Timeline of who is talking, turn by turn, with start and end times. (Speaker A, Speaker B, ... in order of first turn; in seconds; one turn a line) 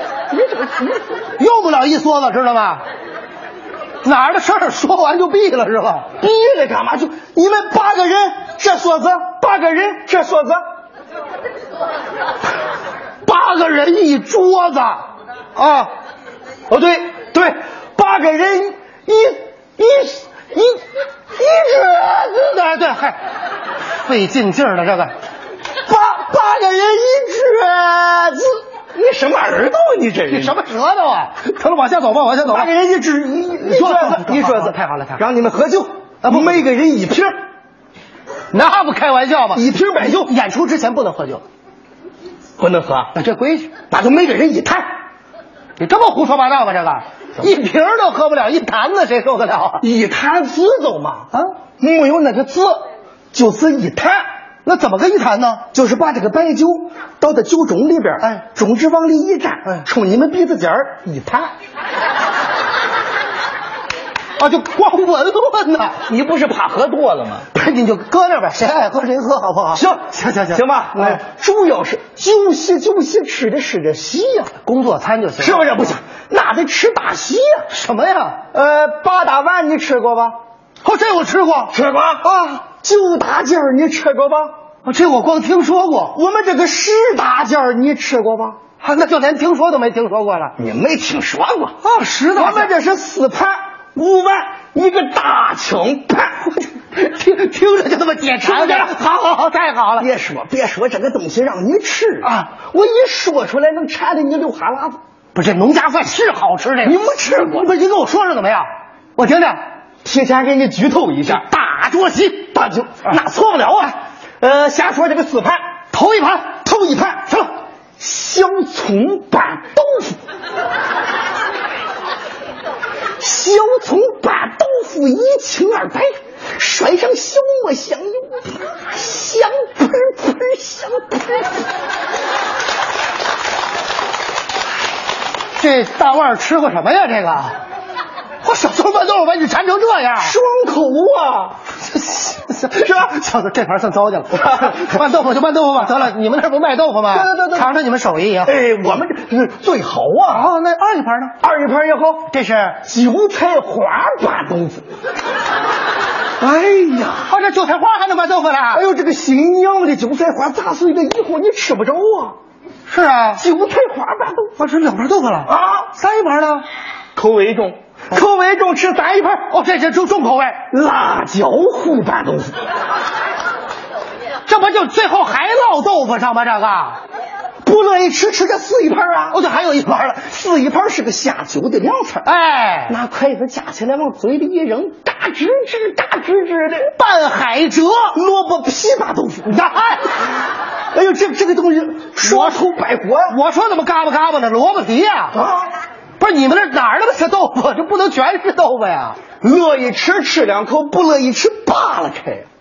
Speaker A: 0.3-1.1
Speaker B: 1.4-2.8
Speaker B: 4.0-6.1
Speaker A: 6.2-10.6
Speaker B: 13.2-15.9
Speaker A: 16.7-20.8
Speaker A: 21.4-22.6
Speaker B: 22.4-23.2
Speaker B: 24.0-25.1
Speaker A: 25.9-30.6
Speaker B: 30.3-32.7
Speaker A: 32.4-37.4
Speaker B: 33.6-35.2
Speaker B: 36.2-36.7
Speaker B: 38.5-41.4
Speaker A: 39.5-40.3
Speaker A: 42.6-43.1
Speaker B: 43.1-43.7
Speaker A: 43.9-44.9
Speaker B: 45.8-49.9
Speaker A: 49.8-54.2
Speaker B: 54.6-55.6
Speaker A: 55.7-61.5
Speaker B: 64.4-66.0
Speaker A: 66.1-67.5
Speaker B: 67.5-71.2
Speaker A: 69.7-74.5
Speaker B: 74.6-76.0
Speaker A: 75.4-77.7
Speaker B: 77.7-78.4
Speaker A: 78.5-80.4
Speaker B: 80.8-81.8
Speaker A: 81.7-84.6
Speaker B: 84.8-86.2
Speaker A: 86.1-88.6
Speaker B: 88.8-90.6
Speaker A: 90.6-96.7
Speaker B: 91.8-92.7
Speaker B: 97.0-100.1
Speaker A: 98.4-99.0
Speaker A: 100.0-105.0
Speaker B: 102.2-102.5
Speaker B: 105.3-107.0
Speaker A: 106.8-107.7
Speaker B: 107.5-109.6
Speaker A: 110.0-111.5
Speaker B: 111.3-112.6
Speaker A: 112.5-115.6
Speaker B: 115.9-116.7
Speaker A: 116.7-117.5
Speaker A: 118.0-120.2
Speaker A: 123.2-131.6
Speaker B: 135.6-137.6
Speaker B: 138.4-140.4
Speaker A: 140.2-141.6
Speaker B: 141.8-148.6
Speaker A: 142.8-143.1
Speaker A: 144.4-145.1
Speaker A: 147.1-147.7
Speaker A: 148.4-150.5
Speaker B: 150.3-151.4
Speaker A: 151.4-152.3
Speaker B: 152.3-152.8
Speaker A: 152.8-154.8
Speaker A: 156.4-157.3
Speaker B: 157.2-158.8
Speaker A: 158.7-162.4
Speaker B: 162.9-163.4
Speaker A: 163.4-164.5
Speaker B: 164.6-166.7
Speaker A: 165.5-165.9
Speaker A: 167.2-169.5
Speaker B: 169.5-170.6
Speaker A: 170.7-172.6
Speaker B: 174.5-177.0
Speaker A: 177.6-179.4
Speaker B: 179.3-180.2
Speaker A: 180.2-182.2
Speaker B: 182.2-183.0
Speaker A: 182.9-186.9
Speaker B: 186.9-188.2
Speaker A: 188.1-189.7
Speaker B: 189.4-190.1
Speaker A: 190.9-193.4
Speaker B: 192.2-192.6
Speaker B: 193.3-195.4
Speaker A: 195.3-195.7
Speaker B: 196.2-199.2
Speaker A: 199.4-202.5